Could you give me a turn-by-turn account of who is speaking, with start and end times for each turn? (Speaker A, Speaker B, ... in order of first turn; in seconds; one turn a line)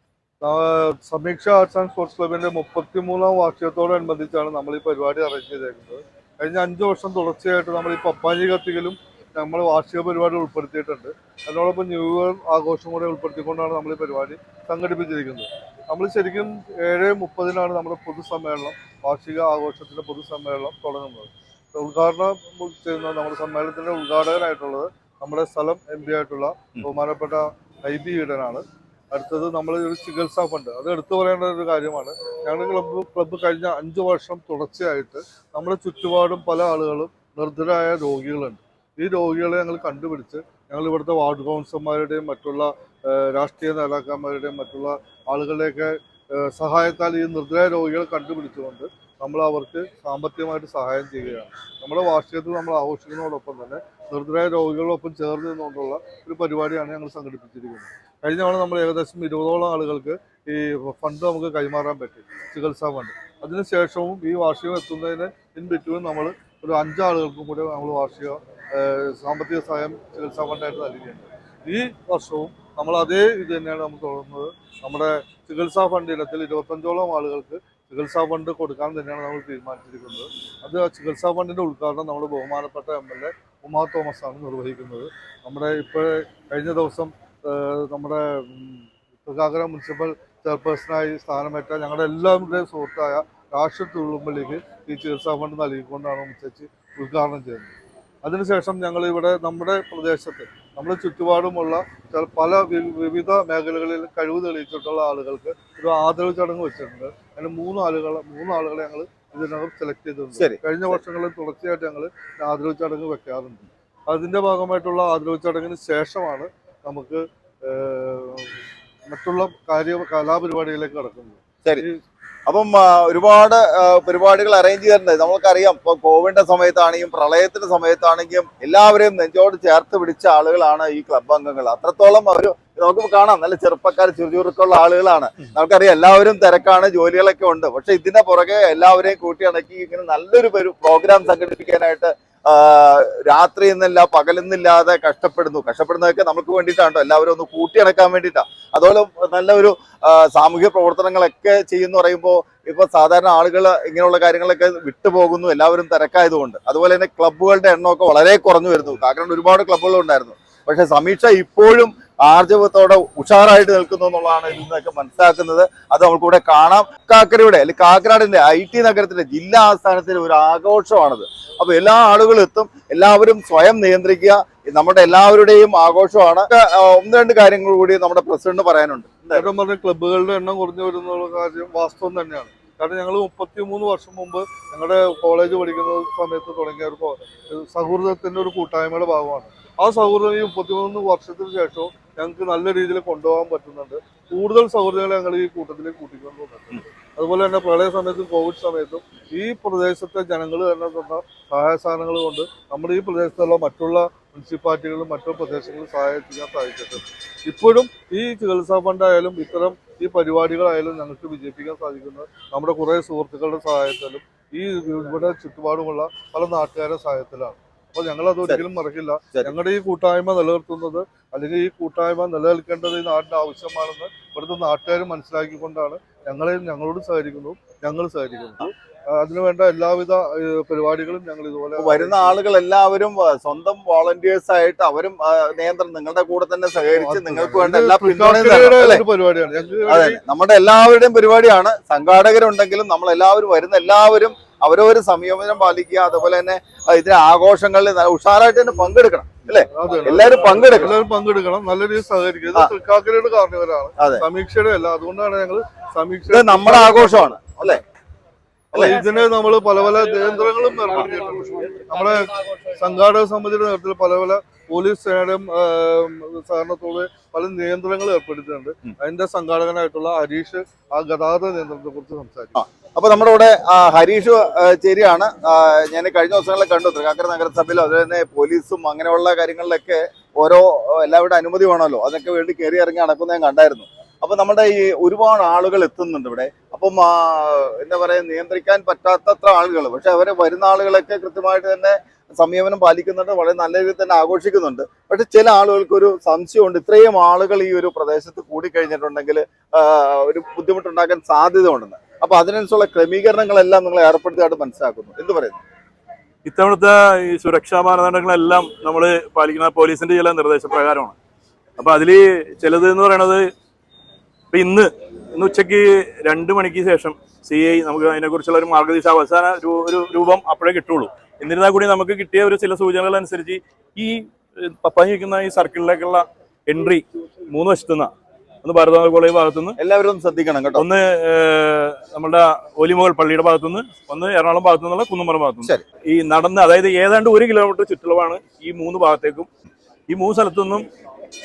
Speaker A: 0.4-97.7
Speaker A: 98.2-122.0
Speaker B: 110.4-111.0
Speaker B: 122.5-179.5
Speaker A: 179.3-232.3
Speaker B: 231.8-239.0
Speaker A: 236.9-240.2
Speaker B: 239.9-251.0
Speaker A: 249.7-257.8
Speaker B: 254.0-254.2
Speaker B: 256.3-257.8
Speaker A: 258.7-272.6
Speaker B: 272.6-305.6
Speaker C: 306.5-311.1
Speaker C: 311.8-313.5
Speaker C: 314.5-328.1
Speaker C: 328.6-329.8
Speaker B: 329.8-330.9
Speaker C: 330.8-339.5
Speaker C: 340.1-340.9